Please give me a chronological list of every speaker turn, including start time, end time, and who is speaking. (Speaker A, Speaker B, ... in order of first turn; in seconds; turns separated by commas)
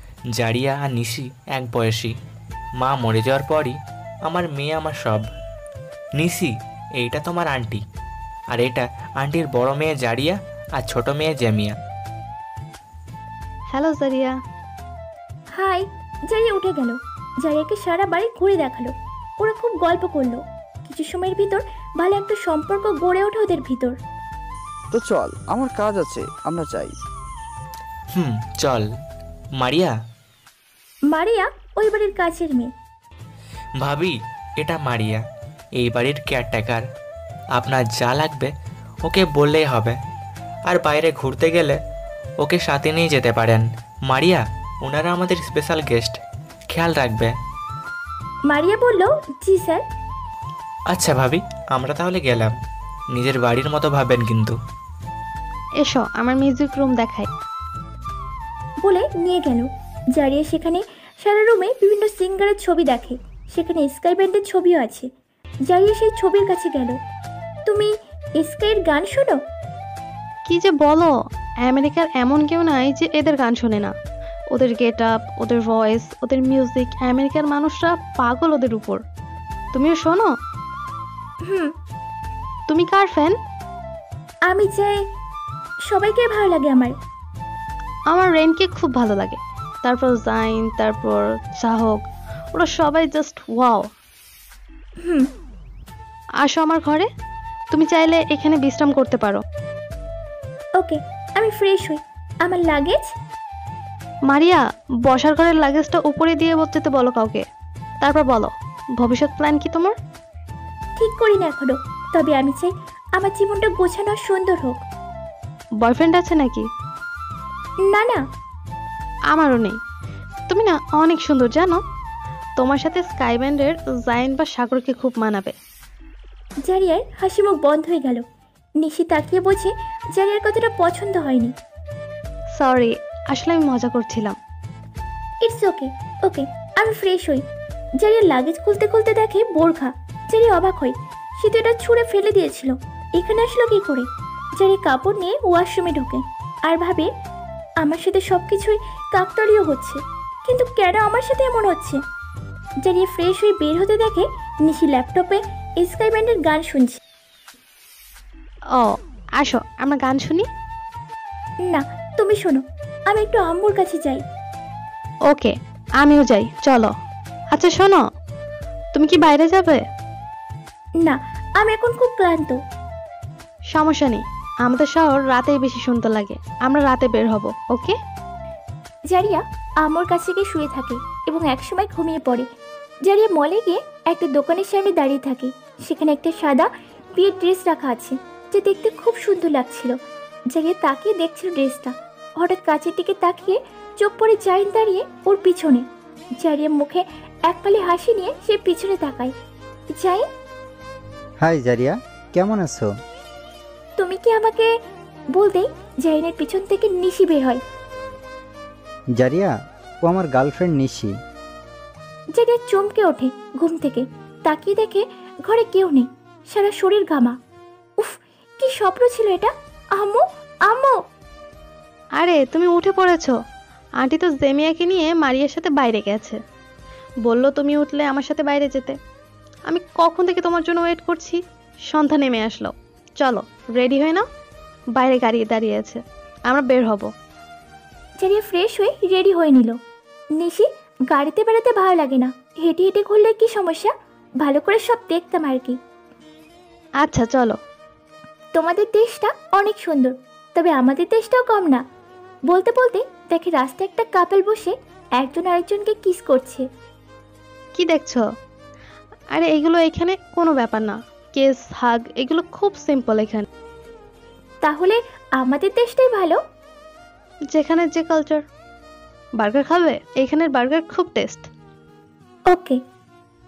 Speaker A: 0.3-2.1, Speaker A: 2.8-5.3, Speaker A: 6.2-7.8, Speaker A: 8.5-11.8, Speaker B: 13.7-14.3, Speaker C: 15.6-24.0, Speaker D: 24.9-26.9, Speaker A: 28.1-28.9, Speaker A: 29.6-29.9, Speaker C: 31.1-32.7, Speaker A: 33.8-35.2, Speaker A: 35.8-36.8, Speaker A: 37.6-38.5, Speaker A: 39.0-40.0, Speaker A: 40.7-41.8, Speaker A: 42.4-46.2, Speaker A: 46.7-47.3, Speaker C: 48.5-49.8, Speaker A: 50.9-52.5, Speaker A: 53.1-54.5, Speaker B: 55.8-57.3, Speaker C: 58.8-65.1, Speaker C: 65.7-67.0, Speaker C: 67.7-69.4, Speaker B: 70.5-71.1, Speaker B: 71.7-73.9, Speaker B: 74.5-79.0, Speaker B: 79.7-80.3, Speaker C: 81.5-81.7, Speaker B: 82.7-83.3, Speaker C: 84.5-85.0, Speaker C: 85.9-86.9, Speaker B: 88.1-93.9, Speaker C: 95.0-95.3, Speaker B: 96.4-97.1, Speaker B: 97.7-99.4, Speaker C: 100.8-103.1, Speaker B: 104.3-107.4, Speaker B: 108.0-110.0, Speaker C: 111.0-114.8, Speaker B: 115.8-116.7, Speaker C: 117.9-118.2, Speaker B: 119.3-119.8, Speaker B: 120.5-121.8, Speaker B: 122.6-125.5, Speaker C: 126.7-128.2, Speaker C: 128.8-131.5, Speaker B: 132.6-134.4, Speaker C: 135.4-137.4, Speaker C: 138.0-144.1, Speaker C: 144.6-147.1, Speaker C: 147.8-152.0, Speaker C: 152.8-157.0, Speaker B: 158.8-160.5, Speaker C: 161.7-164.2, Speaker B: 165.3-166.9, Speaker B: 167.5-168.0, Speaker B: 168.9-169.8, Speaker C: 171.0-172.6, Speaker B: 173.7-177.9, Speaker C: 179.1-182.5, Speaker C: 183.1-190.0, Speaker C: 190.5-195.8, Speaker C: 196.4-199.3, Speaker C: 199.9-200.2, Speaker E: 201.4-202.9, Speaker C: 204.0-204.7, Speaker C: 205.3-207.6, Speaker E: 209.2-209.5, Speaker E: 210.1-211.1, Speaker C: 212.3-217.3, Speaker C: 218.0-220.9, Speaker B: 222.2-223.3, Speaker B: 224.0-226.4, Speaker B: 227.2-229.0, Speaker B: 229.7-234.2, Speaker B: 235.0-237.1, Speaker C: 238.2-239.8, Speaker C: 240.4-243.9, Speaker C: 244.4-245.8, Speaker B: 247.0-247.6, Speaker C: 248.5-251.8, Speaker C: 252.5-256.6, Speaker B: 257.8-258.2, Speaker B: 259.3-263.5, Speaker C: 264.6-266.4, Speaker B: 267.5-268.4, Speaker B: 269.4-271.5, Speaker C: 272.5-272.8